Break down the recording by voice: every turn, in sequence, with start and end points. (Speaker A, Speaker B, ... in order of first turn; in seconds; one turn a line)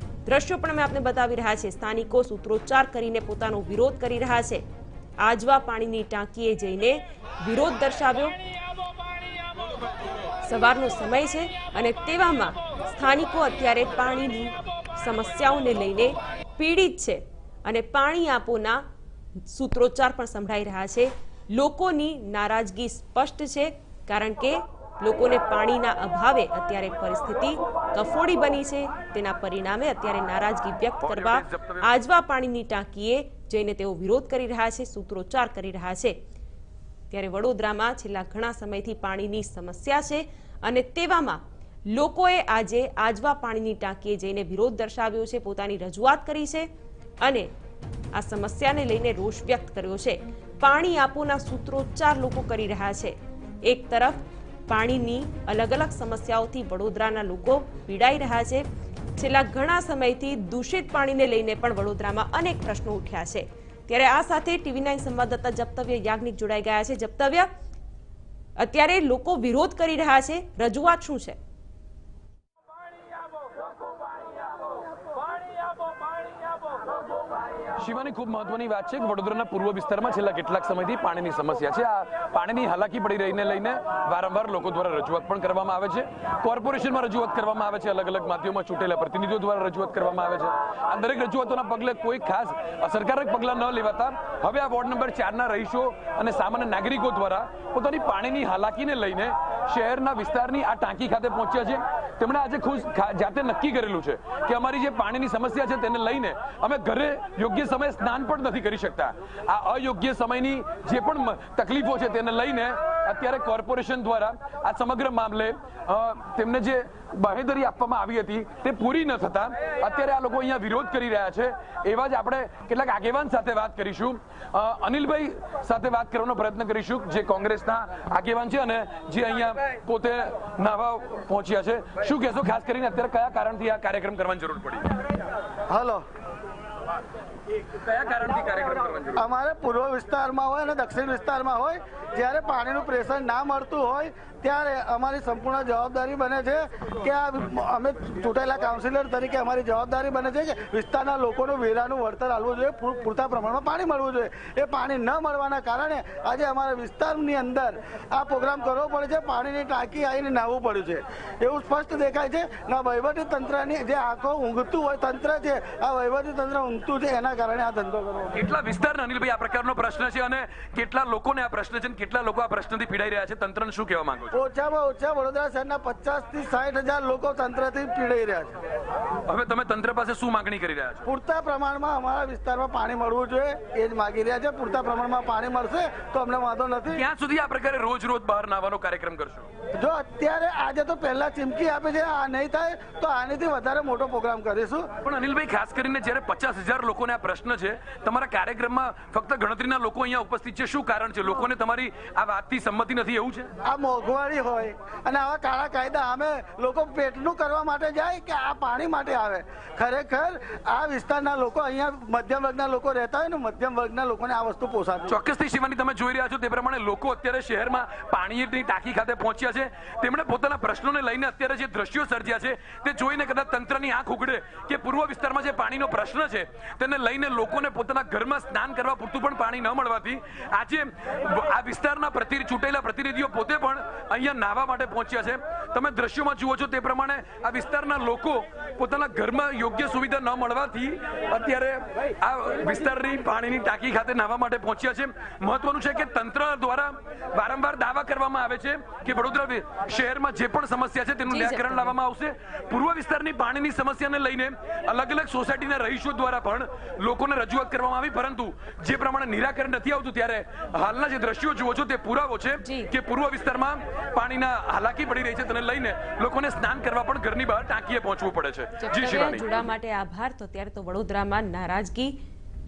Speaker A: 0.2-4.6
Speaker A: 5.2-8.4
Speaker A: 10.4-18.8
Speaker A: 19.5-36.1
Speaker B: 31.0-31.9
Speaker A: 37.1-41.4
Speaker A: 41.9-46.7
Speaker A: 47.2-47.5
Speaker A: 48.1-58.6
Speaker A: 59.1-67.5
Speaker A: 68.6-71.4
Speaker B: 77.8-134.9
Speaker C: 135.7-136.0
Speaker B: 137.8-139.2
Speaker C: 139.2-168.3
Speaker B: 168.3-174.4
Speaker C: 174.3-178.6
Speaker B: 179.3-181.1
Speaker C: 181.1-187.0
Speaker B: 186.9-189.5
Speaker C: 189.8-194.9
Speaker B: 195.0-203.5
Speaker C: 203.6-215.1
Speaker B: 215.1-269.6
Speaker A: 251.3-251.9
Speaker A: 262.6-262.9
Speaker A: 268.8-272.1